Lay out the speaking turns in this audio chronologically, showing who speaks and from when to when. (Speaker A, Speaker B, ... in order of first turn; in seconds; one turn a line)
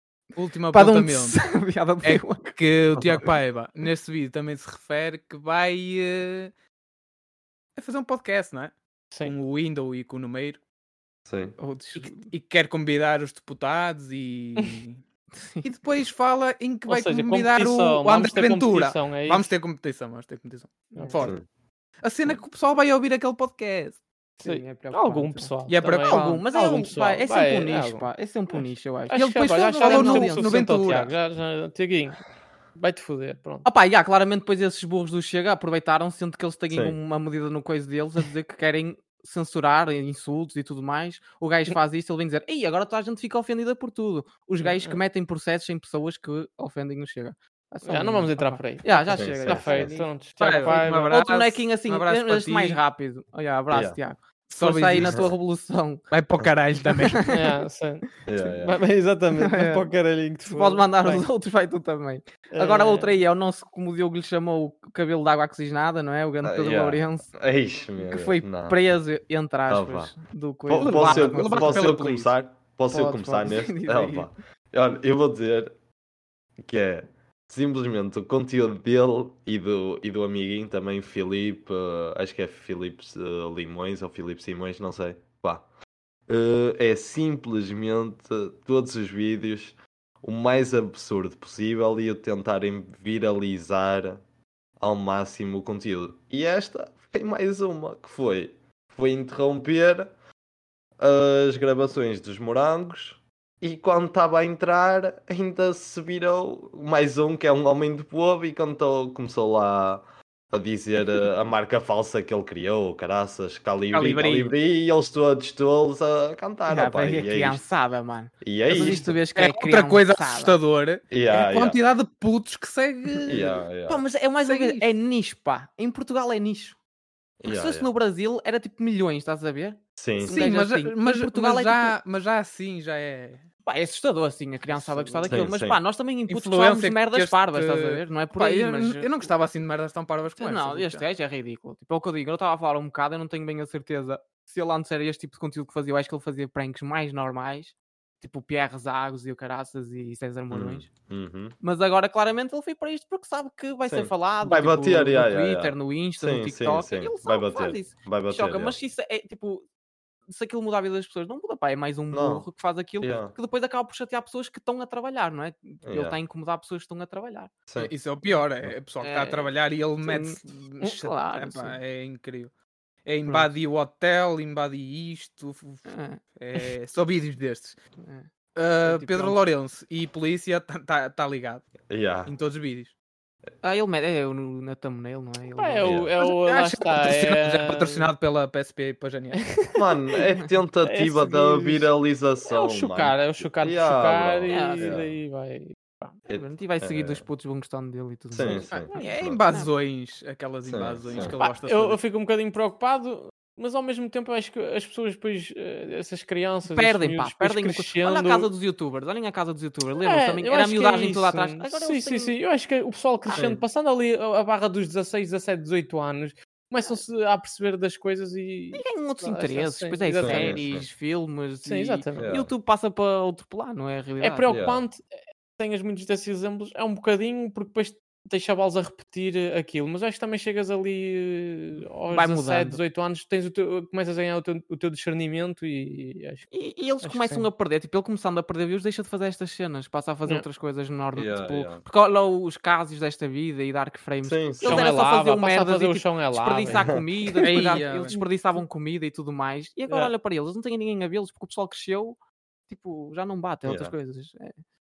Speaker A: 0.3-1.4
Speaker B: 0.7-3.0
Speaker A: 2.0-6.5
Speaker A: 7.8-10.6
Speaker C: 11.2-11.6
Speaker B: 11.6-12.3
Speaker A: 11.9-15.0
Speaker B: 15.3-15.7
Speaker A: 15.6-21.4
Speaker D: 16.9-19.5
Speaker D: 20.9-21.2
Speaker A: 22.0-24.0
Speaker B: 24.4-31.0
Speaker D: 24.4-32.2
Speaker A: 25.7-26.4
Speaker A: 29.1-31.1
Speaker D: 32.8-33.6
Speaker B: 33.6-56.0
Speaker C: 36.7-37.0
Speaker D: 44.6-45.0
Speaker D: 47.9-51.2
Speaker C: 49.1-49.9
Speaker A: 50.4-52.8
Speaker C: 53.7-54.0
Speaker A: 54.5-55.2
Speaker C: 55.0-55.3
Speaker A: 56.1-57.3
Speaker B: 56.9-57.4
Speaker D: 57.3-58.1
Speaker C: 58.2-58.8
Speaker D: 58.6-61.2
Speaker B: 59.4-59.9
Speaker B: 60.5-67.3
Speaker D: 62.5-63.1
Speaker C: 66.4-68.8
Speaker B: 68.0-72.0
Speaker C: 69.7-70.1
Speaker C: 70.7-75.7
Speaker A: 70.7-72.3
Speaker B: 72.9-74.3
Speaker C: 76.6-85.7
Speaker C: 86.3-94.2
Speaker C: 94.8-100.1
Speaker C: 101.0-117.6
Speaker A: 113.9-114.5
Speaker B: 116.7-120.5
Speaker C: 118.4-119.1
Speaker A: 119.3-123.5
Speaker C: 121.1-121.8
Speaker B: 123.1-126.8
Speaker C: 123.3-124.0
Speaker A: 124.4-124.9
Speaker C: 127.4-127.9
Speaker B: 127.5-131.9
Speaker C: 130.0-130.4
Speaker A: 130.2-133.4
Speaker B: 133.6-139.3
Speaker A: 134.7-135.5
Speaker C: 135.3-135.8
Speaker A: 136.3-141.0
Speaker B: 140.4-150.9
Speaker C: 150.5-151.6
Speaker B: 151.6-159.7
Speaker C: 153.9-158.8
Speaker B: 160.3-167.5
Speaker C: 162.1-162.5
Speaker C: 163.0-163.3
Speaker C: 165.8-166.2
Speaker A: 167.8-172.5
Speaker B: 169.0-169.5
Speaker B: 170.0-171.8
Speaker A: 173.0-177.8
Speaker B: 175.9-176.7
Speaker B: 178.0-178.3
Speaker A: 178.6-181.7
Speaker B: 178.8-179.4
Speaker C: 181.9-182.3
Speaker A: 182.2-182.9
Speaker B: 183.6-186.0
Speaker D: 185.6-188.1
Speaker C: 185.8-186.1
Speaker A: 186.2-189.4
Speaker D: 189.4-189.8
Speaker C: 189.7-195.2
Speaker D: 190.8-191.9
Speaker D: 192.5-196.1
Speaker B: 194.5-195.0
Speaker B: 196.2-199.7
Speaker C: 196.3-197.2
Speaker C: 198.3-199.4
Speaker A: 198.7-202.0
Speaker C: 200.7-201.3
Speaker D: 201.4-208.5
Speaker B: 206.7-212.4
Speaker D: 210.0-220.6
Speaker C: 213.3-213.6
Speaker B: 218.7-224.5
Speaker C: 220.2-220.9
Speaker D: 221.6-222.2
Speaker C: 222.2-222.5
Speaker D: 224.2-225.0
Speaker C: 224.5-224.8
Speaker D: 225.6-236.4
Speaker B: 232.1-232.8
Speaker B: 236.5-252.2
Speaker D: 237.0-237.5
Speaker C: 241.1-241.8
Speaker C: 244.2-244.9
Speaker D: 244.6-246.8
Speaker C: 246.7-247.0
Speaker D: 247.3-248.2
Speaker A: 247.4-248.2
Speaker B: 252.7-254.6
Speaker C: 253.6-253.9